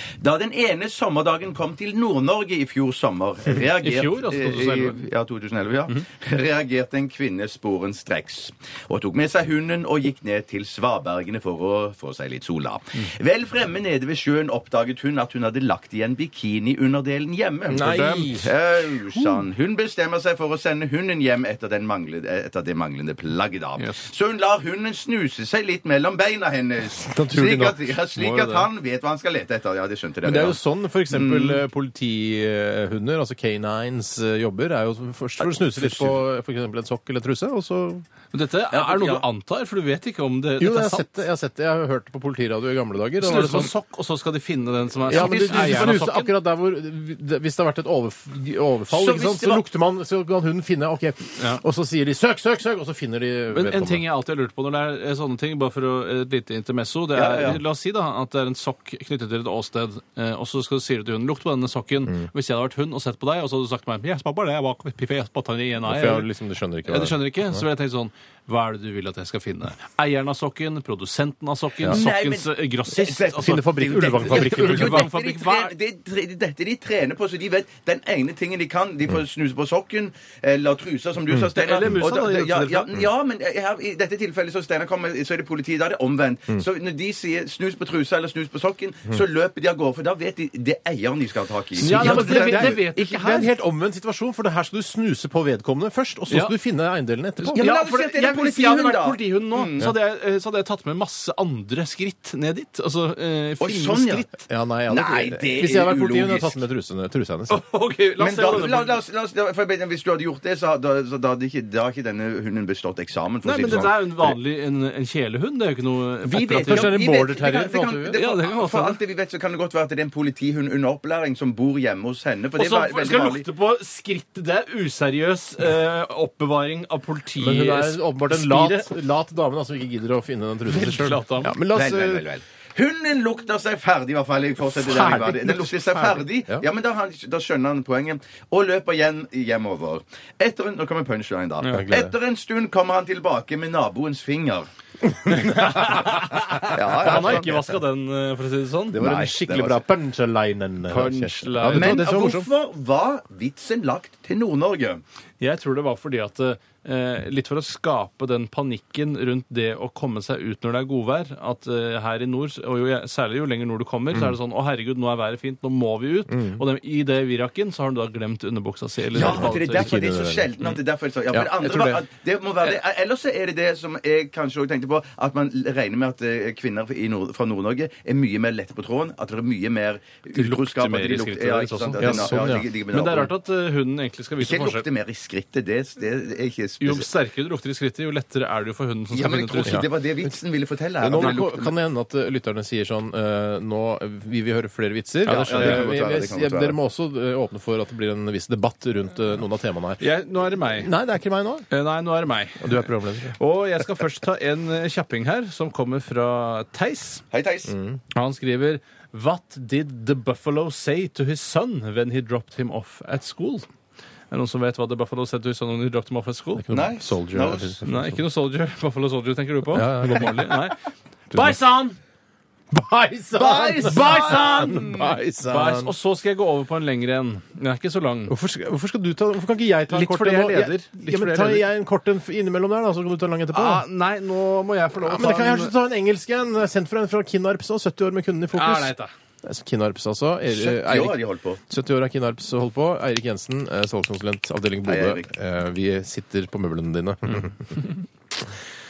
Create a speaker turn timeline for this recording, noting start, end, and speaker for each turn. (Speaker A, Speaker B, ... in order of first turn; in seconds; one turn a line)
Speaker A: 0.2-30.6
Speaker B: 3.8-5.0
Speaker C: 17.7-18.5
Speaker B: 17.8-18.5
Speaker B: 23.8-24.0
Speaker C: 27.0-27.8
Speaker B: 28.1-28.7
Speaker C: 30.2-38.0
Speaker A: 31.1-31.6
Speaker A: 35.4-36.1
Speaker B: 38.3-41.2
Speaker A: 38.7-39.2
Speaker C: 40.6-43.7
Speaker B: 43.2-46.3
Speaker C: 45.1-54.0
Speaker A: 45.1-46.0
Speaker A: 48.9-49.6
Speaker B: 53.5-66.3
Speaker A: 57.1-57.6
Speaker C: 65.8-67.6
Speaker B: 66.8-75.7
Speaker A: 71.8-92.9
Speaker C: 73.4-75.1
Speaker C: 81.3-81.9
Speaker B: 81.5-82.9
Speaker B: 91.8-93.5
Speaker C: 91.8-97.7
Speaker B: 96.3-96.5
Speaker B: 97.4-104.4
Speaker A: 97.5-99.9
Speaker A: 103.6-104.3
Speaker C: 104.5-107.6
Speaker A: 104.9-106.6
Speaker B: 107.5-109.0
Speaker A: 108.2-114.0
Speaker B: 113.4-117.0
Speaker C: 113.6-114.3
Speaker A: 116.3-123.5
Speaker C: 116.4-118.2
Speaker B: 118.1-119.0
Speaker B: 122.5-128.9
Speaker C: 127.4-132.2
Speaker B: 130.7-131.5
Speaker A: 131.7-144.7
Speaker C: 134.8-136.7
Speaker B: 141.6-141.9
Speaker C: 141.7-142.1
Speaker C: 145.2-146.0
Speaker B: 145.3-149.0
Speaker A: 146.6-147.6
Speaker C: 147.0-147.5
Speaker C: 148.9-152.5
Speaker A: 148.9-149.8
Speaker B: 150.9-152.1
Speaker A: 151.7-155.0
Speaker B: 155.4-169.9
Speaker C: 166.3-166.6
Speaker A: 169.1-183.3
Speaker C: 169.1-170.7
Speaker C: 171.3-172.0
Speaker B: 180.3-184.8
Speaker C: 182.0-182.7
Speaker A: 184.4-187.1
Speaker B: 186.8-189.8
Speaker A: 189.1-191.7
Speaker C: 191.0-200.0
Speaker B: 195.2-195.9
Speaker A: 195.3-196.8
Speaker B: 200.0-200.9
Speaker C: 200.7-201.7
Speaker B: 201.7-207.2
Speaker C: 202.6-203.3
Speaker A: 207.3-207.7
Speaker C: 207.7-208.0
Speaker B: 208.1-213.7
Speaker B: 214.3-216.7
Speaker C: 216.6-218.2
Speaker A: 216.7-217.8
Speaker B: 217.8-220.8
Speaker C: 219.7-220.7
Speaker C: 221.3-221.6
Speaker B: 221.3-222.0
Speaker C: 222.7-225.9
Speaker A: 223.3-225.2
Speaker B: 223.9-224.7
Speaker B: 225.4-228.3
Speaker C: 228.3-233.8
Speaker B: 229.9-231.6
Speaker B: 233.5-235.7
Speaker C: 235.0-247.8
Speaker B: 238.5-239.1
Speaker A: 240.5-241.6
Speaker A: 244.8-245.3